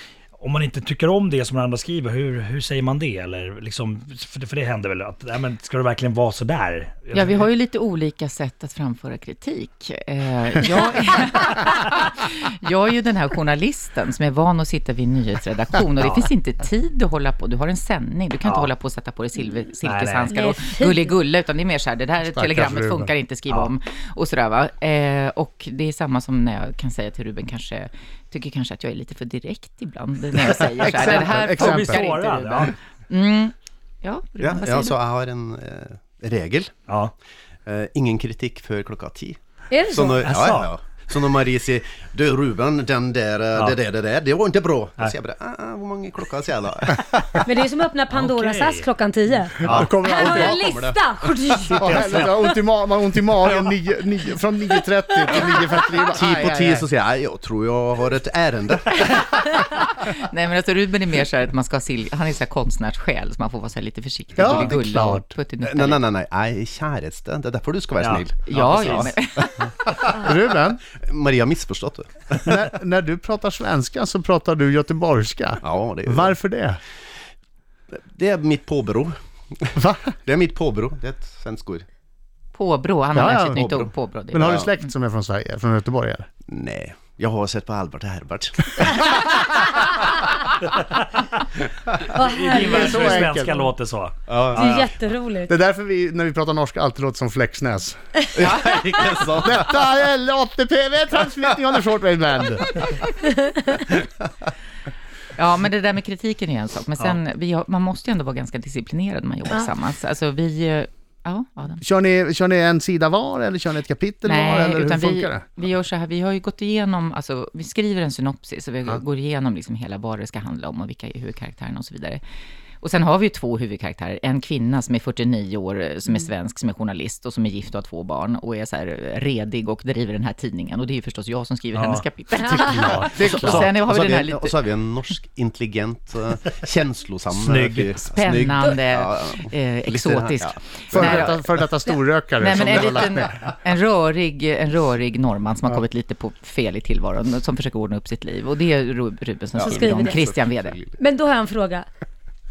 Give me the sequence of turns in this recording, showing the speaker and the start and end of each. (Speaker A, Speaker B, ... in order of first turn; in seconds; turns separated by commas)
Speaker A: 0.4-7.5, Speaker B: 7.1-35.0, Speaker A: 19.8-20.3, Speaker C: 20.3-21.1, Speaker D: 22.2-23.1, Speaker D: 30.8-32.0, Speaker A: 30.8-32.7, Speaker E: 34.4-36.7, Speaker A: 36.9-37.1, Speaker E: 37.6-47.1, Speaker C: 39.7-40.3, Speaker A: 40.2-40.7, Speaker C: 47.3-52.2, Speaker A: 48.1-48.9, Speaker A: 49.6-49.9, Speaker D: 49.6-50.6, Speaker E: 49.7-51.0, Speaker D: 51.6-56.9, Speaker A: 51.8-52.2, Speaker E: 56.1-59.0, Speaker B: 59.0-66.0, Speaker D: 64.4-65.3, Speaker E: 65.6-69.2, Speaker A: 68.0-69.1, Speaker B: 68.5-69.7, Speaker D: 70.0-70.8, Speaker E: 71.0-72.3, Speaker D: 72.4-76.8, Speaker E: 75.6-76.4, Speaker E: 77.9-81.8, Speaker D: 79.8-80.1, Speaker B: 82.5-84.6, Speaker D: 83.1-83.8, Speaker E: 83.6-83.9, Speaker D: 84.3-86.3, Speaker E: 84.4-84.7, Speaker E: 86.5-89.2, Speaker A: 90.8-91.4, Speaker A: 92.1-94.9, Speaker C: 92.1-93.3, Speaker D: 92.5-93.6, Speaker E: 94.3-94.8, Speaker C: 94.5-95.5, Speaker D: 95.5-98.0, Speaker E: 98.3-99.6, Speaker D: 99.4-102.7, Speaker C: 103.3-103.6, Speaker B: 105.3-111.8, Speaker D: 111.8-115.5, Speaker B: 114.2-122.2, Speaker B: 122.8-134.6, Speaker A: 131.7-132.0, Speaker C: 132.4-132.9, Speaker D: 132.5-133.7, Speaker A: 132.7-133.7, Speaker E: 133.3-141.2, Speaker A: 137.3-138.0, Speaker B: 138.1-141.4, Speaker D: 140.9-143.4, Speaker B: 142.4-150.8, Speaker E: 149.6-151.0, Speaker C: 149.6-150.2, Speaker C: 151.0-151.9